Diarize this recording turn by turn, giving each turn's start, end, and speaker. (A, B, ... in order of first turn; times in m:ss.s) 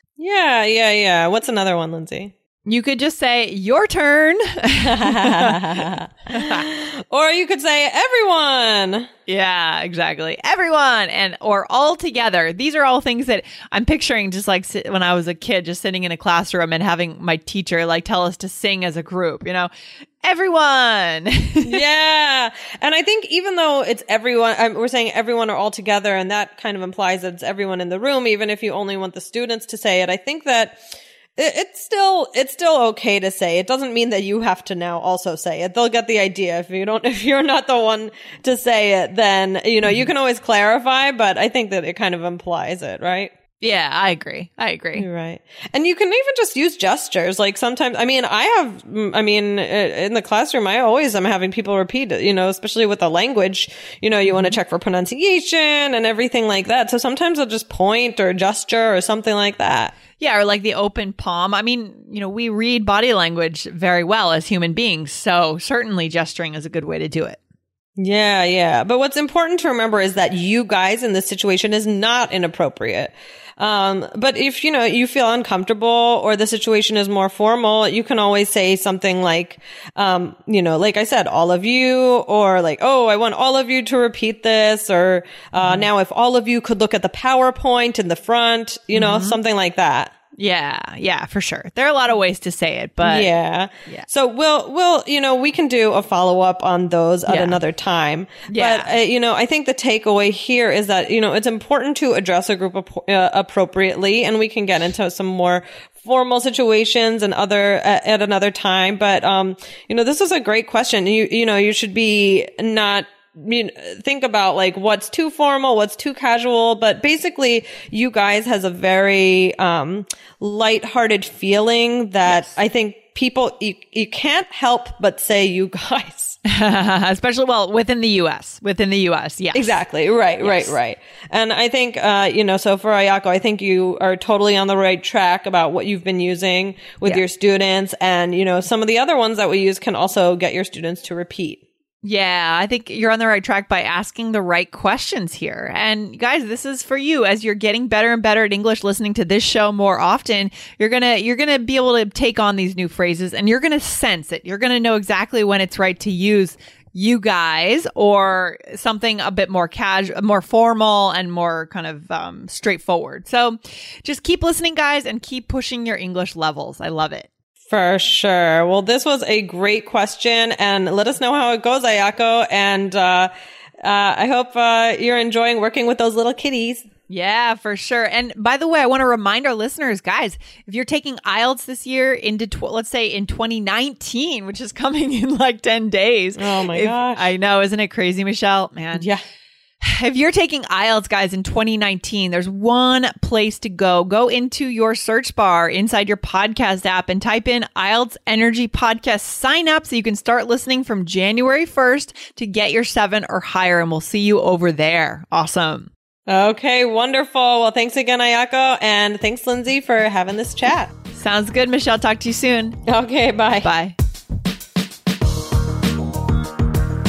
0:00.2-0:02.3 A
0:02.6-0:06.6 B
0:04.9-0:09.1 A
0:09.3-0:19.7 B
0:20.2-0:21.8 B
0:21.6-0:30.8 A
0:31.4-0:43.3 A
0:43.6-0:45.0 B
0:45.0-1:00.0 A
0:54.3-0:54.6 B
1:00.2-1:07.4 B
1:08.0-1:30.1 A
1:25.6-1:25.9 B
1:28.9-1:29.4 B
1:30.4-1:33.3 B
1:33.0-2:06.4 A
1:37.3-1:37.6 B
1:38.5-1:38.9 B
2:06.5-2:09.8 B
2:09.5-2:21.6 A
2:10.4-2:10.8 B
2:22.0-2:47.3 B
2:47.7-2:53.3 A
2:53.8-2:56.9 A
2:57.1-3:09.0 B
3:06.4-3:07.3 A
3:08.9-3:09.2 A
3:09.8-3:25.9 B
3:26.3-3:30.9 A
3:31.1-3:32.8 B
3:32.9-3:33.7 A
3:33.6-3:33.9 B